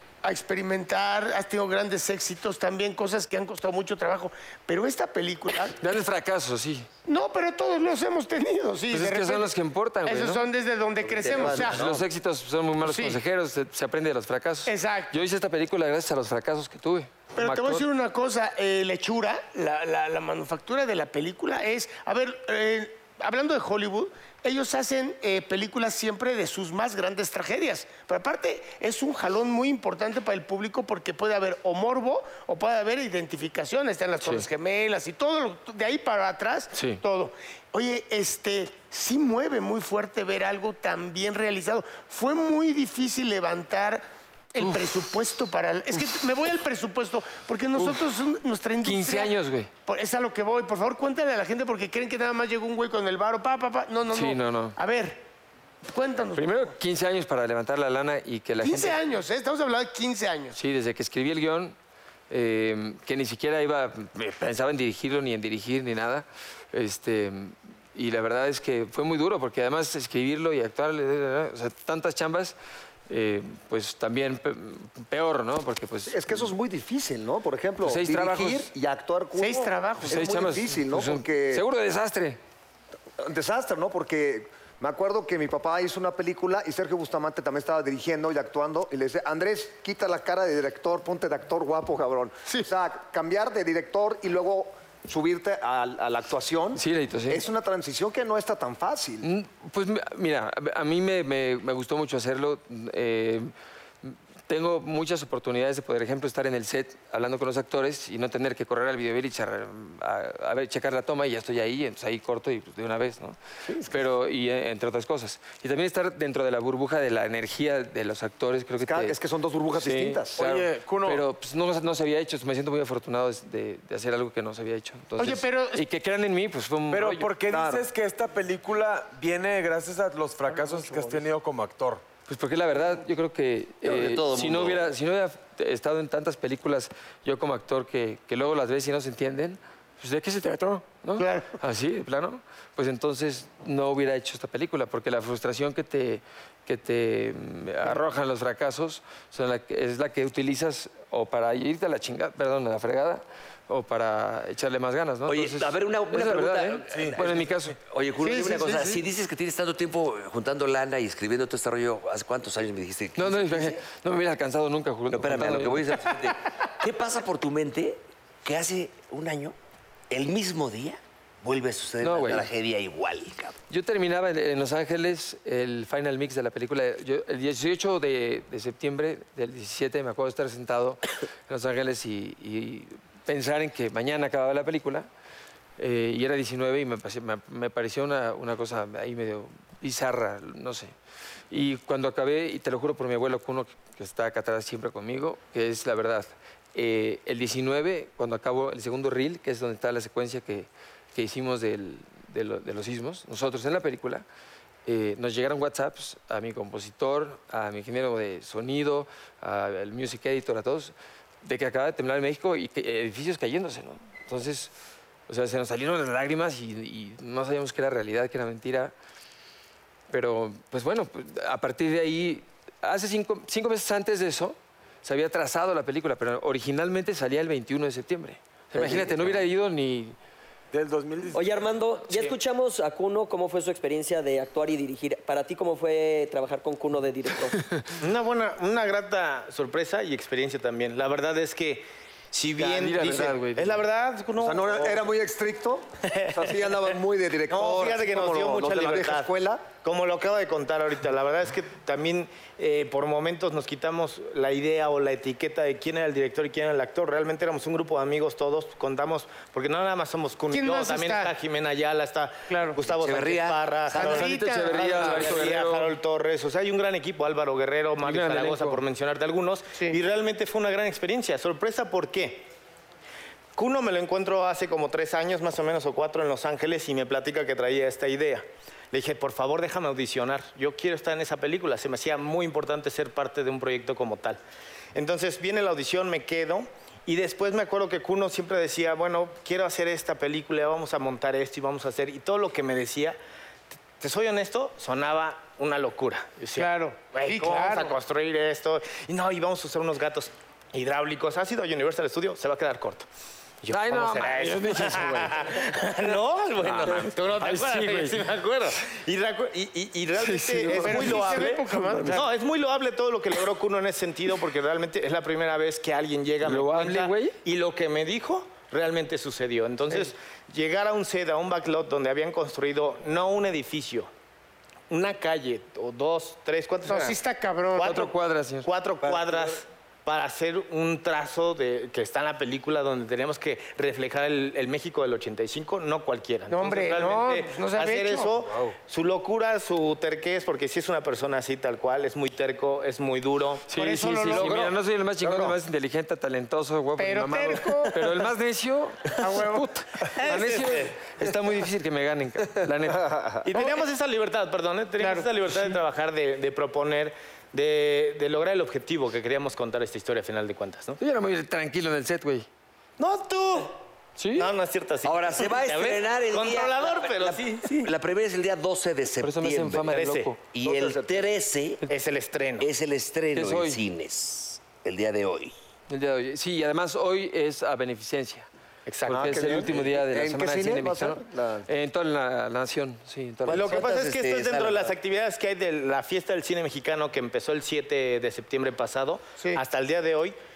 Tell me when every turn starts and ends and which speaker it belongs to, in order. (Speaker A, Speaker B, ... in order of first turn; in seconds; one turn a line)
Speaker A: 0.2-5.8
Speaker B: 5.8-6.9
Speaker A: 7.1-11.8
Speaker B: 8.9-10.4
Speaker C: 11.0-12.1
Speaker B: 11.3-17.9
Speaker A: 12.8-13.2
Speaker A: 14.7-15.2
Speaker A: 17.4-55.2
Speaker B: 34.2-34.5
Speaker B: 36.7-37.0
Speaker B: 48.8-49.7
Speaker B: 54.1-54.8
Speaker A: 55.9-56.8
Speaker B: 56.4-59.0
Speaker A: 58.6-60.6
Speaker B: 60.5-61.8
Speaker B: 62.3-72.5
Speaker B: 73.1-76.5
Speaker D: 76.1-81.7
Speaker B: 77.8-78.7
Speaker A: 79.4-80.2
Speaker B: 80.1-82.4
Speaker D: 83.2-99.3
Speaker B: 96.8-97.4
Speaker B: 99.2-103.5
Speaker B: 104.0-119.2
Speaker D: 113.7-114.0
Speaker D: 118.8-120.4
Speaker B: 119.8-127.3
Speaker E: 120.4-121.2
Speaker A: 125.2-125.9
Speaker E: 126.9-132.0
Speaker D: 127.5-127.8
Speaker B: 132.3-157.8
Speaker C: 133.8-134.9
Speaker A: 141.2-141.6
Speaker C: 155.3-163.8
Speaker E: 156.9-157.2
Speaker A: 158.2-158.8
Speaker B: 158.7-159.0
Speaker B: 163.2-166.2
Speaker C: 165.1-169.6
Speaker C: 170.1-173.6
Speaker B: 172.0-172.5
Speaker B: 173.7-185.1
Speaker B: 185.8-190.9
Speaker B: 191.5-204.2
Speaker B: 204.9-214.7
Speaker B: 215.3-218.9
Speaker B: 220.1-230.2
Speaker C: 228.8-229.3
Speaker E: 230.7-231.6
Speaker F: 231.3-237.6
Speaker G: 232.1-232.3
Speaker G: 238.0-245.0
Speaker B: 242.6-243.8
Speaker D: 244.4-249.7
Speaker G: 246.0-246.9
Speaker G: 247.5-272.5
Speaker A: 260.5-261.3
Speaker A: 262.5-262.8
Speaker C: 262.8-264.3
Speaker A: 263.9-265.4
Speaker B: 264.0-265.9
Speaker B: 268.0-268.8
Speaker G: 273.6-284.4
Speaker G: 284.9-293.2
Speaker G: 294.0-303.1
Speaker A: 296.6-298.0
Speaker G: 303.6-324.1
Speaker B: 303.7-305.5
Speaker B: 306.6-308.2
Speaker B: 310.2-312.2
Speaker A: 310.7-312.3
Speaker B: 316.4-317.4
Speaker G: 324.9-327.2
Speaker A: 326.9-328.1
Speaker B: 327.8-328.7
Speaker G: 327.8-328.1
Speaker G: 328.6-343.8
Speaker A: 336.5-338.3
Speaker B: 343.7-353.4
Speaker A: 343.8-344.7
Speaker D: 344.3-344.7
Speaker A: 347.0-348.2
Speaker A: 349.2-350.7
Speaker G: 350.1-351.0
Speaker G: 353.4-361.0
Speaker A: 353.5-353.9
Speaker A: 355.0-355.7
Speaker B: 361.0-362.5
Speaker G: 363.0-363.8
Speaker B: 364.2-364.5
Speaker G: 364.3-367.9
Speaker C: 365.0-369.9
Speaker B: 369.2-370.4
Speaker G: 369.8-370.3
Speaker C: 370.5-371.8
Speaker D: 370.6-371.3
Speaker G: 371.9-372.7
Speaker C: 372.6-375.5
Speaker B: 373.3-373.8
Speaker B: 375.9-378.5
Speaker G: 378.9-379.6
Speaker B: 379.1-383.9
Speaker D: 379.1-381.7
Speaker C: 383.5-385.0
Speaker G: 383.5-390.4